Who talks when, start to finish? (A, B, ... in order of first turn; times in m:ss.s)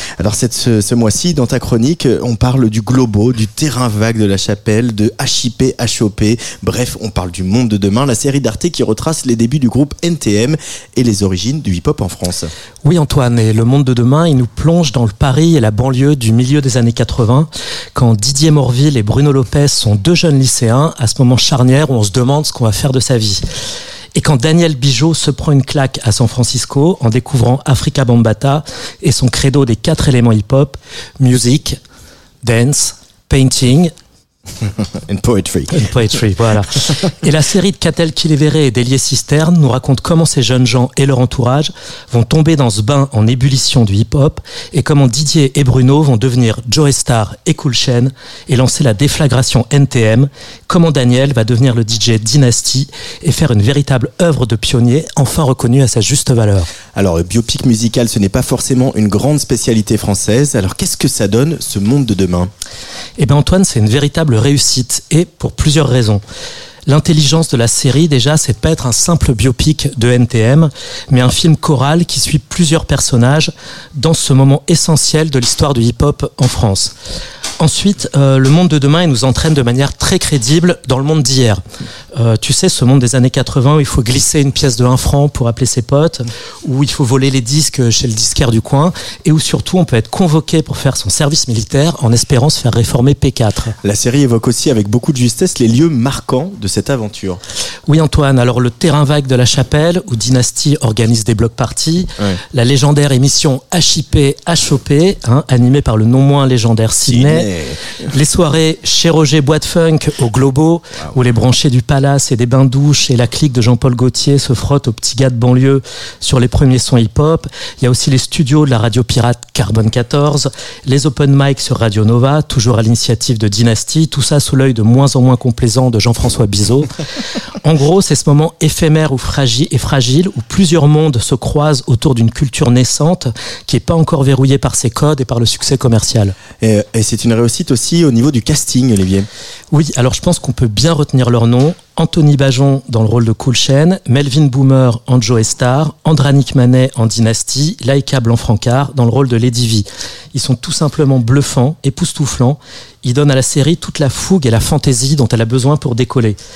0:00.2-0:12.5 A
0:12.8-0:23.4 B
0:24.2-0:31.8 B
0:32.4-0:33.9 B
0:34.9-0:35.8 A
0:35.7-0:56.7 B
0:57.0-1:02.5 A
1:03.2-1:06.2 B
1:06.9-1:16.9 B
1:17.6-1:21.6 B
1:22.1-1:33.8 B
1:33.8-1:37.4 A
1:37.9-1:47.5 B
1:47.1-1:47.9 A
1:48.0-2:06.9 B
2:07.6-2:16.4 B
2:16.6-2:19.3 A
2:19.7-2:36.4 B